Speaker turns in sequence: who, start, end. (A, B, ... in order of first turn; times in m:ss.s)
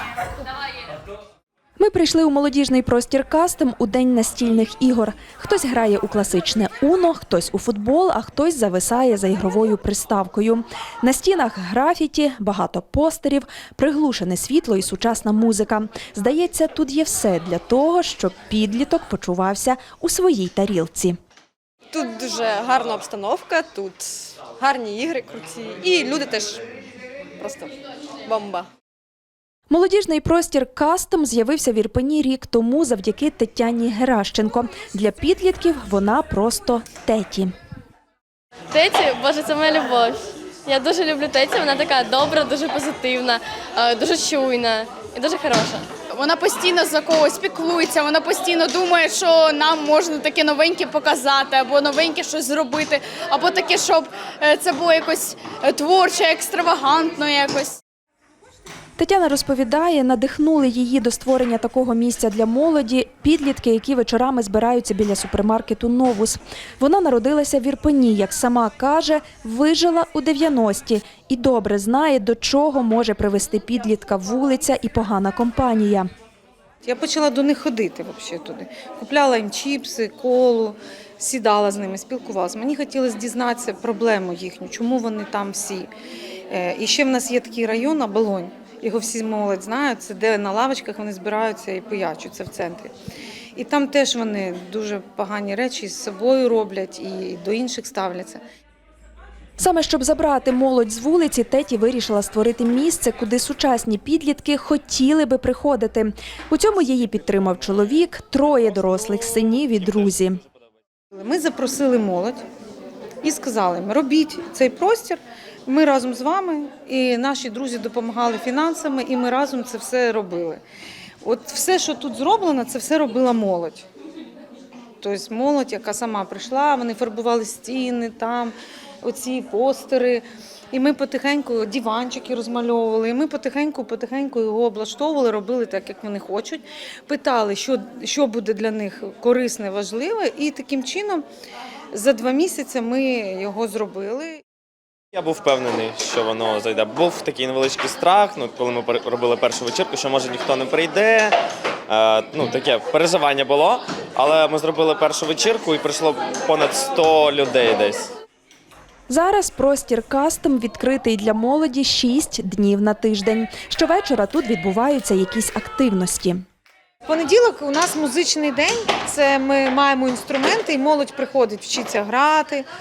0:01.8-0:21.2 A
0:21.9-0:24.0 B
0:24.6-0:26.6 B
0:27.4-0:27.7 B
0:28.3-0:28.6 B
0:29.7-0:37.5 A
0:38.7-0:45.9 C
0:46.1-0:57.8 D
0:59.0-1:16.1 A
1:16.8-1:25.9 E
1:26.5-1:32.9 E
1:33.5-1:38.4 E
1:39.6-1:50.4 A
1:51.1-1:52.4 E
1:53.2-2:00.6 E
2:01.2-2:03.8 E
2:05.0-2:21.2 E
2:21.9-2:24.4 E
2:25.1-2:38.1 F
2:39.1-2:46.4 A
2:47.0-2:52.6 E